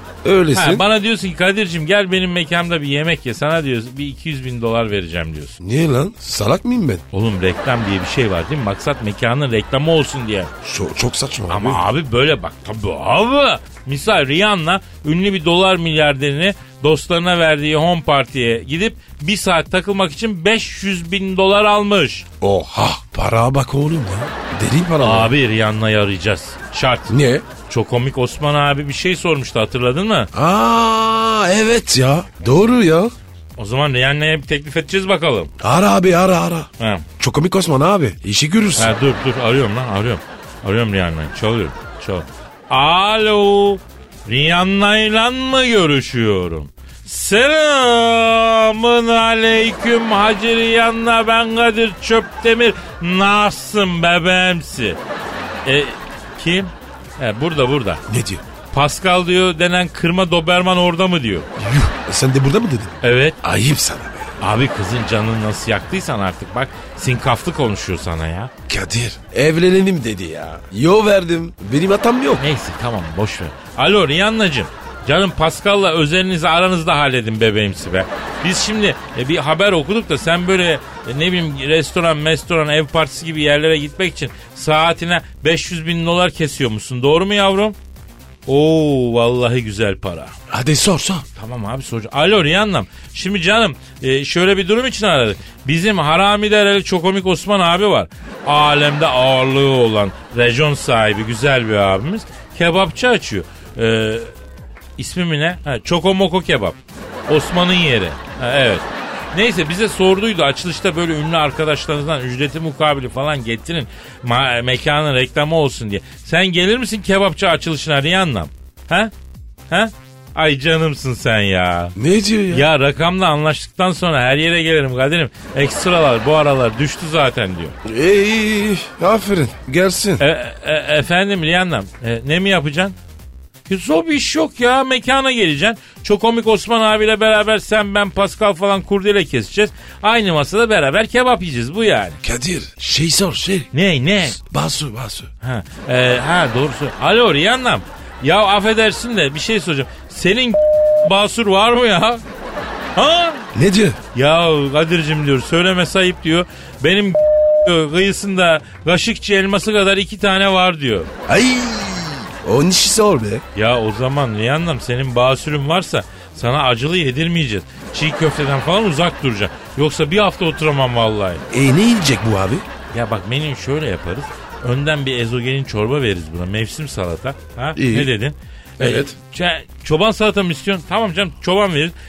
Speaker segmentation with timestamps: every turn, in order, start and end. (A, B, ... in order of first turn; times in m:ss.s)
0:00.2-0:00.8 A
0:00.5-0:05.6 B
0:05.6-0:07.0 A
0:07.1-0:10.5 B
0:10.6-0:11.8 A
0:11.5-0:22.2 B
0:22.4-0:25.3 A
0:25.0-0:30.3 B
0:27.1-0:27.4 A
0:30.3-0:33.1 A
0:33.6-0:35.5 B
0:35.6-0:38.9 A
0:36.8-0:37.0 B
0:38.8-0:55.0 B
0:55.6-0:58.0 B
0:58.1-0:58.4 A
0:58.7-1:01.5 B
1:01.6-1:04.3 A
1:03.0-1:03.4 B
1:04.4-1:08.5 B
1:08.7-1:12.4 A
1:12.4-1:27.8 B
1:28.5-1:30.3 B
1:30.5-1:31.2 A
1:31.4-1:44.3 B
1:45.0-1:59.1 B
1:59.7-2:02.0 B
2:02.0-2:02.7 A
2:02.5-2:07.7 B
2:07.8-2:10.2 A
2:10.2-2:13.0 B
2:13.7-2:22.2 B
2:22.2-2:23.7 A
2:23.7-2:24.4 B
2:24.2-2:25.3 A
2:25.4-2:32.2 B
2:33.0-2:33.4 B
2:33.5-2:34.0 A
2:34.1-2:41.1 B
2:41.2-2:43.4 A
2:43.5-2:51.4 B
2:51.5-2:52.6 A
2:52.9-3:01.9 B
2:57.8-2:58.1 A
2:58.8-2:59.1 A